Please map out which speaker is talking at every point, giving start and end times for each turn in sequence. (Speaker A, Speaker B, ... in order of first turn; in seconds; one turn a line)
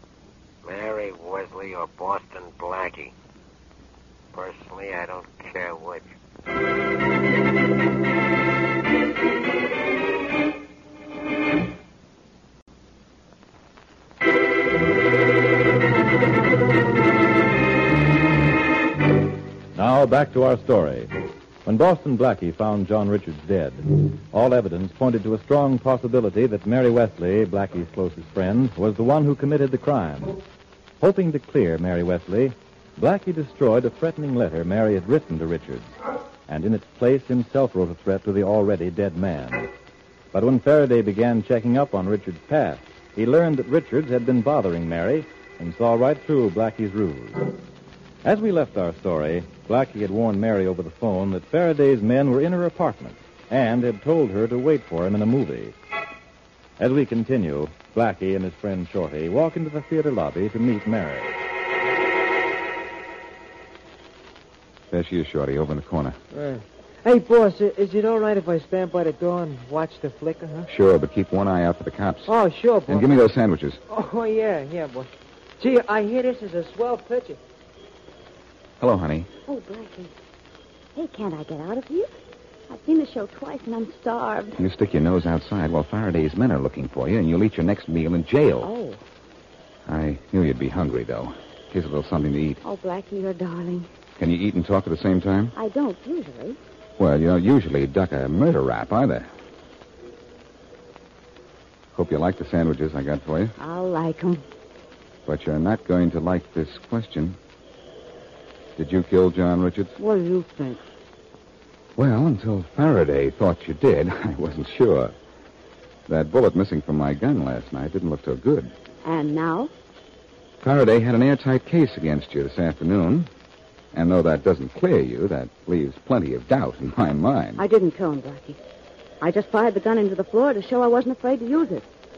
Speaker A: 0.6-3.1
Speaker A: 4.3-6.1
Speaker B: 19.7-21.1
Speaker B: 21.6-30.4
Speaker B: 31.0-35.9
Speaker B: 36.5-39.7
Speaker B: 40.3-47.4
Speaker B: 48.2-55.7
Speaker B: 56.8-61.4
Speaker C: 64.9-66.2
Speaker D: 66.3-70.7
Speaker C: 70.7-72.3
Speaker D: 72.3-73.2
Speaker C: 72.9-73.8
Speaker D: 73.9-77.4
Speaker C: 78.8-79.3
Speaker E: 79.5-80.1
Speaker E: 80.9-82.1
Speaker E: 82.7-84.6
Speaker C: 84.6-88.7
Speaker E: 88.6-89.0
Speaker C: 89.8-92.6
Speaker E: 92.6-93.9
Speaker C: 94.2-95.5
Speaker E: 95.5-96.6
Speaker C: 97.0-99.3
Speaker C: 101.9-103.5
Speaker E: 103.6-104.4
Speaker C: 105.2-107.4
Speaker C: 108.8-110.0
Speaker E: 110.0-110.8
Speaker C: 112.0-115.1
Speaker C: 116.1-118.7
Speaker E: 119.0-119.7
Speaker C: 120.6-123.3
Speaker C: 123.9-127.6
Speaker E: 127.6-128.6
Speaker E: 129.2-131.9